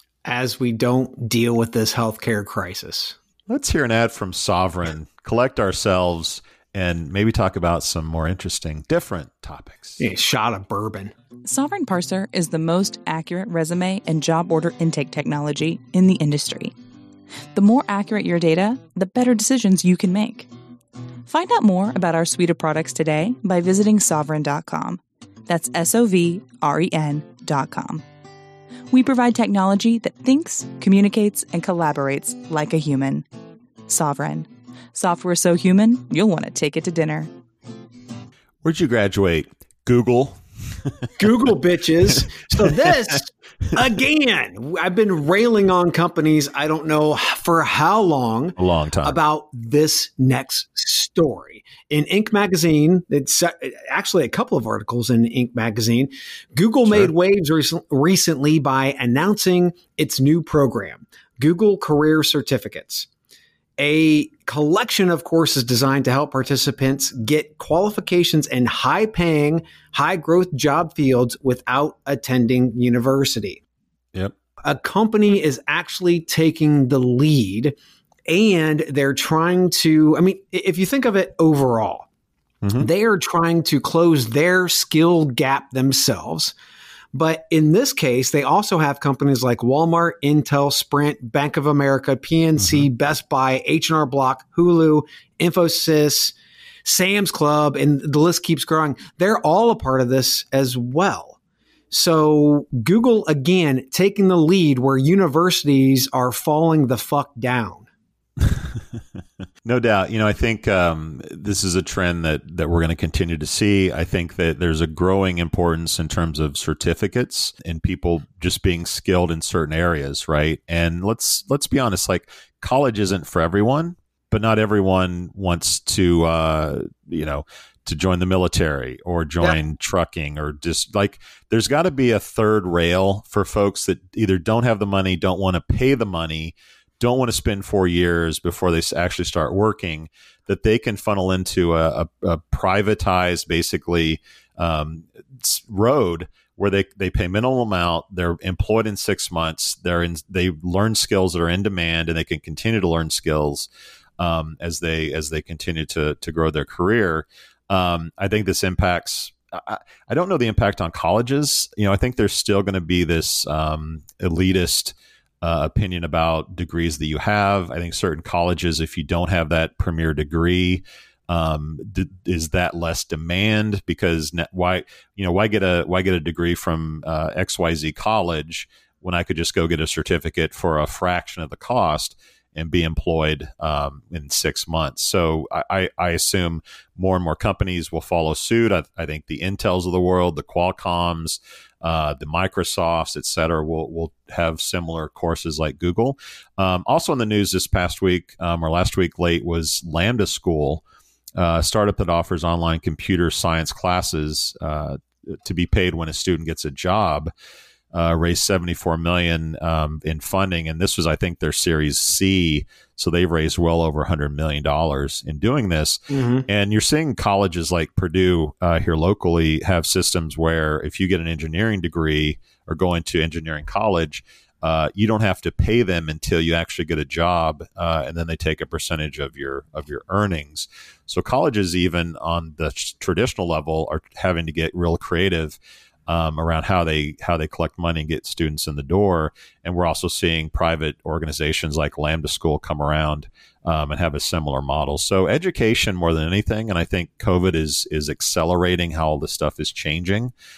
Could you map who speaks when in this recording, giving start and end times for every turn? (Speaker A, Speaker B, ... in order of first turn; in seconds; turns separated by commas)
Speaker A: 0.2-3.2, Speaker B: 3.5-10.0, Speaker A: 10.0-11.1, Speaker C: 11.4-16.7, Speaker C: 17.5-20.5, Speaker C: 21.3-28.0, Speaker C: 28.9-33.2, Speaker C: 33.9-37.3, Speaker B: 38.6-41.5, Speaker A: 41.2-63.1, Speaker B: 48.6-49.2, Speaker B: 56.9-57.1, Speaker A: 63.8-73.6, Speaker A: 74.6-77.7, Speaker A: 78.3-82.0, Speaker B: 82.6-82.9, Speaker A: 82.8-86.5, Speaker A: 87.1-96.3, Speaker B: 92.6-92.8, Speaker A: 96.8-101.4, Speaker A: 101.9-107.8, Speaker B: 108.4-109.0, Speaker B: 109.6-200.8, Speaker B: 201.3-207.3, Speaker B: 207.9-250.3, Speaker A: 216.1-216.4